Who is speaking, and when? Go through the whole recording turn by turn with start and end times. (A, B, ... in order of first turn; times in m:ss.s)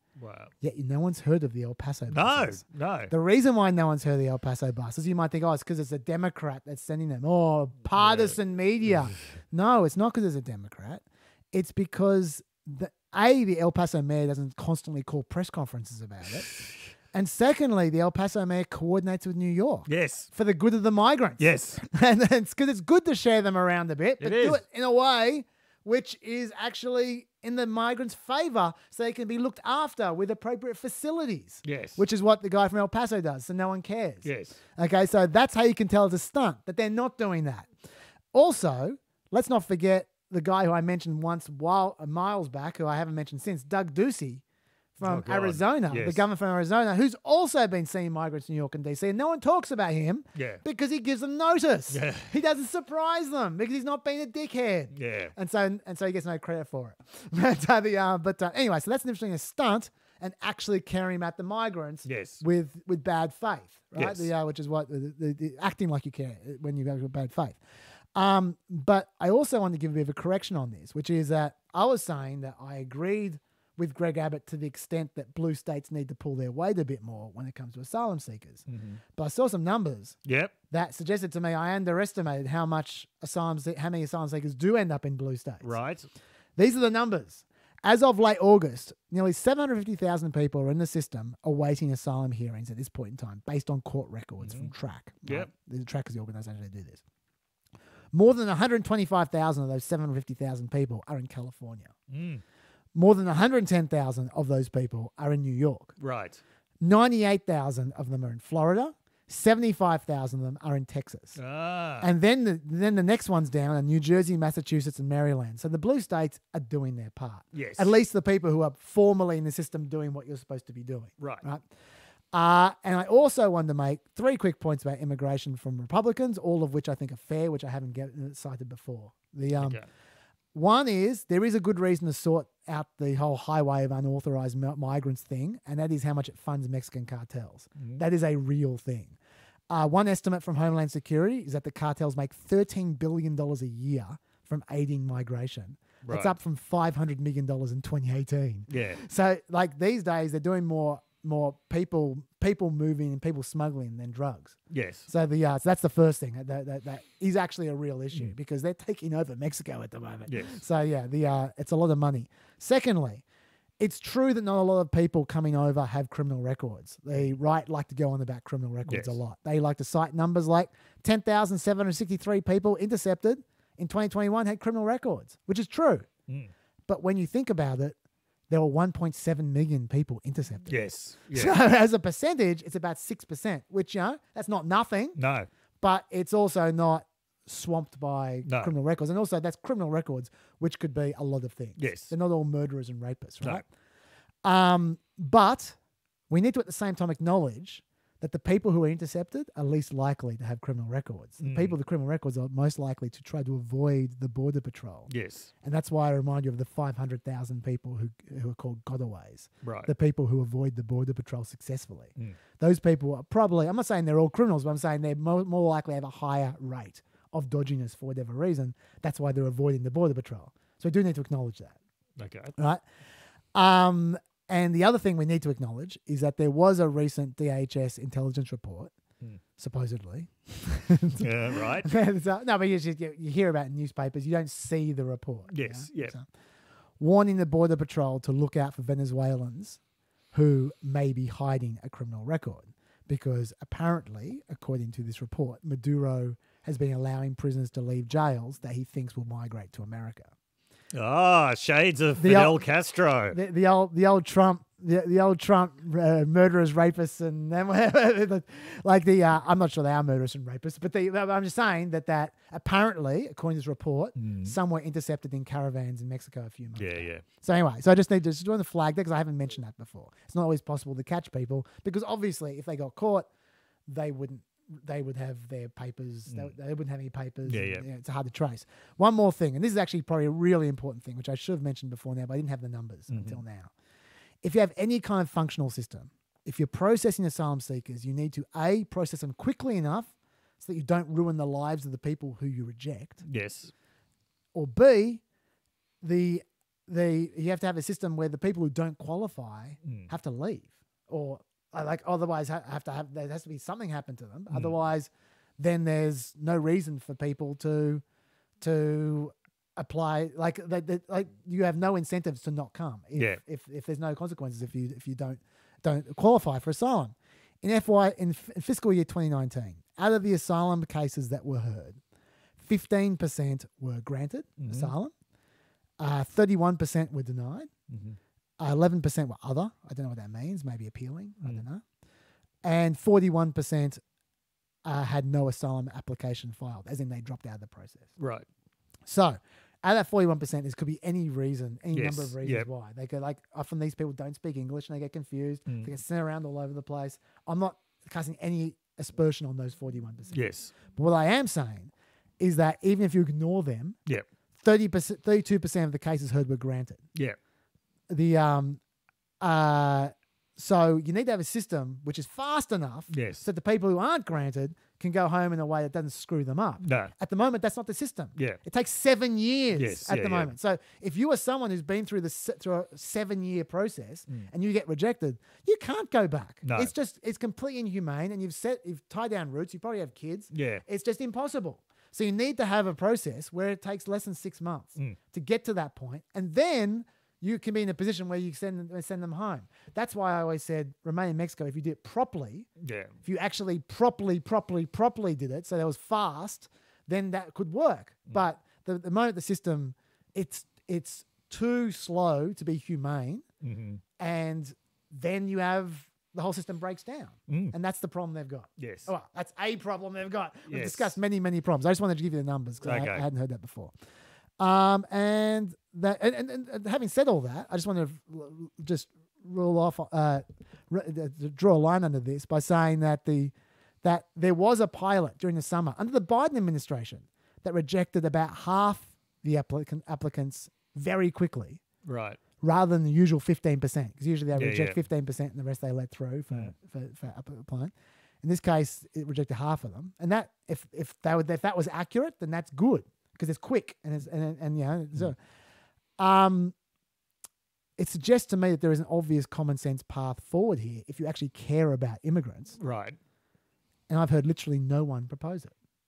0:00.2-0:00.5 A
0:00.6-0:16.5 B
0:02.1-0:03.1 A
0:08.0-0:08.4 A
0:17.1-0:37.7 B
0:19.9-0:20.3 A
0:21.4-0:21.8 A
0:24.2-0:24.6 A
0:31.6-0:32.0 A
0:34.2-0:34.6 A
0:38.3-0:44.4 B
0:45.0-1:07.6 B
0:45.0-0:46.2 A
0:50.3-0:50.6 A
0:51.9-0:52.3 A
0:54.9-0:55.3 A
1:02.0-1:02.4 A
1:03.9-1:04.3 A
1:08.1-1:20.2 B
1:18.7-1:19.0 A
1:20.2-1:20.5 A
1:20.7-1:25.7 B
1:25.6-1:26.1 A
1:26.6-1:37.0 B
1:34.4-1:34.7 A
1:35.2-1:35.5 A
1:38.1-1:41.9 B
1:42.1-1:42.4 A
1:42.9-1:45.9 B
1:46.0-1:46.4 A
1:46.8-1:51.4 B
1:51.3-1:52.1 A
1:52.0-2:01.6 B
1:57.5-1:57.9 A
2:01.2-2:01.4 A
2:02.3-2:09.8 B
2:09.5-2:09.8 A
2:10.5-2:19.2 B
2:17.8-2:18.0 A
2:19.7-2:43.2 B
2:26.0-2:26.3 A
2:28.7-2:29.0 A
2:34.7-2:35.1 A
2:40.2-2:40.6 A
2:43.8-2:56.1 B
2:48.9-2:49.2 A
2:56.3-2:56.5 A
2:56.9-2:58.0 B
2:58.5-3:05.2 B
3:00.7-3:01.5 A
3:05.2-3:05.5 A
3:05.8-3:13.7 B
3:08.4-3:08.7 A
3:11.8-3:12.1 A
3:14.4-3:15.8 B
3:16.3-3:25.1 B
3:21.4-3:21.7 A
3:25.1-3:25.5 A
3:25.6-3:41.8 B
3:29.6-3:29.9 A
3:42.2-3:42.6 A
3:42.6-3:42.8 B
3:43.5-3:48.9 B
3:49.6-3:56.3 B
3:51.2-3:51.9 A
3:55.5-3:56.2 A
3:57.0-3:59.8 B
4:00.3-4:10.3 B
4:10.9-4:13.4 A
4:12.2-4:12.6 B
4:13.3-4:33.3 B
4:24.2-4:24.6 A
4:26.8-4:27.2 A
4:33.9-4:43.7 B
4:36.3-4:36.5 A
4:37.5-4:37.8 A
4:43.1-4:43.4 A
4:44.4-4:53.2 B
4:53.2-4:53.7 A
4:54.5-4:55.2 B
4:56.0-5:08.0 B
4:59.8-5:00.1 A
5:04.5-5:04.7 A
5:08.6-5:22.0 B
5:22.6-5:25.1 B
5:24.6-5:24.9 A
5:26.0-5:27.7 B
5:27.9-5:28.2 A
5:28.6-5:31.8 B
5:32.6-5:34.0 B
5:34.8-5:38.1 B
5:38.2-5:38.4 A
5:39.0-5:54.0 B
5:41.9-5:42.7 A
5:45.7-5:45.9 A
5:50.3-5:50.7 A
5:54.6-5:57.0 B
5:58.1-5:58.8 B
5:59.4-6:32.7 B
6:03.1-6:03.4 A
6:06.8-6:07.1 A
6:09.7-6:10.5 A
6:16.6-6:16.9 A
6:20.5-6:20.8 A
6:32.8-6:33.1 A
6:33.2-6:43.4 B
6:43.6-6:44.0 A
6:44.2-6:53.9 B
6:47.5-6:47.7 A
6:48.8-6:49.1 A
6:50.7-6:51.2 A
6:52.8-6:53.2 A
6:54.6-7:11.8 B
7:12.0-7:12.4 A
7:12.6-7:25.4 B
7:14.5-7:15.0 A
7:26.2-7:26.7 B
7:28.0-7:32.8 B
7:32.8-7:33.2 A
7:34.1-7:35.7 B